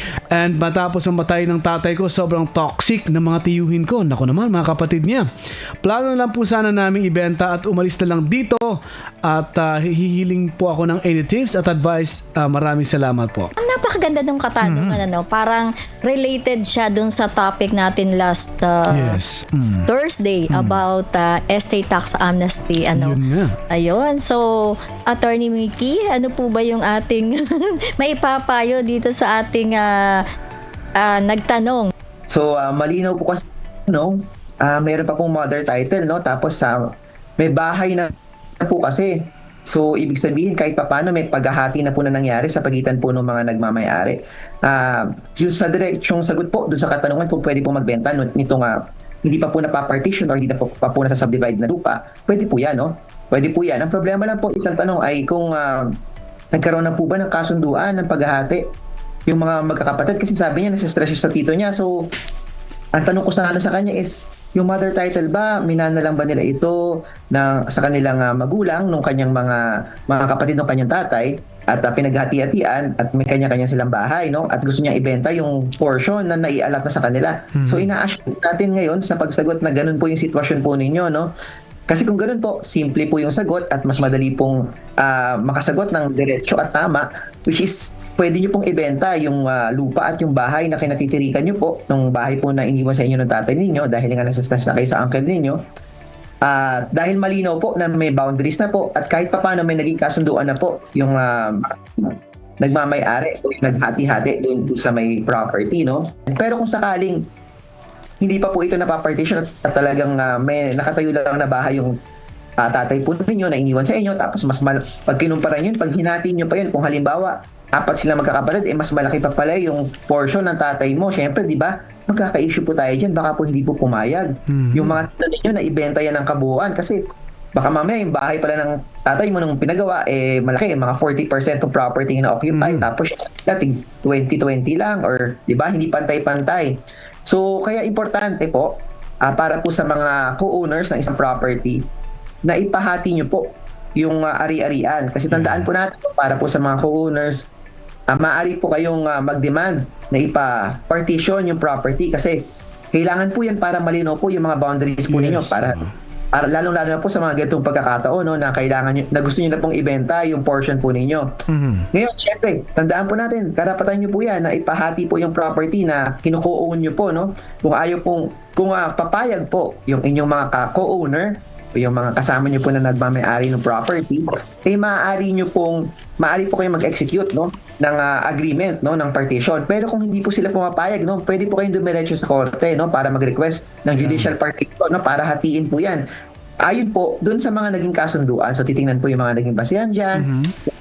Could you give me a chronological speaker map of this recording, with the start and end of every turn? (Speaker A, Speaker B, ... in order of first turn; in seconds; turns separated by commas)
Speaker A: 0.3-5.3, Speaker A: 5.8-13.5, Speaker B: 13.6-19.2, Speaker A: 14.6-15.0, Speaker A: 18.9-19.9, Speaker B: 19.9-23.2, Speaker A: 20.5-20.8, Speaker A: 22.9-23.6, Speaker B: 23.7-30.2, Speaker B: 31.0-31.9, Speaker C: 32.3-36.8, Speaker C: 37.4-39.1, Speaker C: 39.7-55.9, Speaker C: 56.5-58.6, Speaker C: 59.3-62.0, Speaker C: 63.0-66.8, Speaker C: 67.3-81.3, Speaker A: 77.6-77.9, Speaker C: 81.9-95.6, Speaker C: 96.4-107.2, Speaker C: 108.2-111.9, Speaker C: 112.6-127.0, Speaker A: 124.5-125.0, Speaker C: 127.5-136.7, Speaker A: 132.5-132.9, Speaker C: 137.3-138.7, Speaker C: 139.2-141.8, Speaker C: 142.5-143.5, Speaker C: 144.0-147.5, Speaker A: 145.3-145.7, Speaker C: 148.1-152.4, Speaker C: 152.9-155.8, Speaker A: 155.1-155.9, Speaker C: 156.3-161.3, Speaker A: 161.5-161.9, Speaker C: 161.9-186.0, Speaker A: 184.0-184.3, Speaker C: 186.6-190.3, Speaker A: 190.2-190.5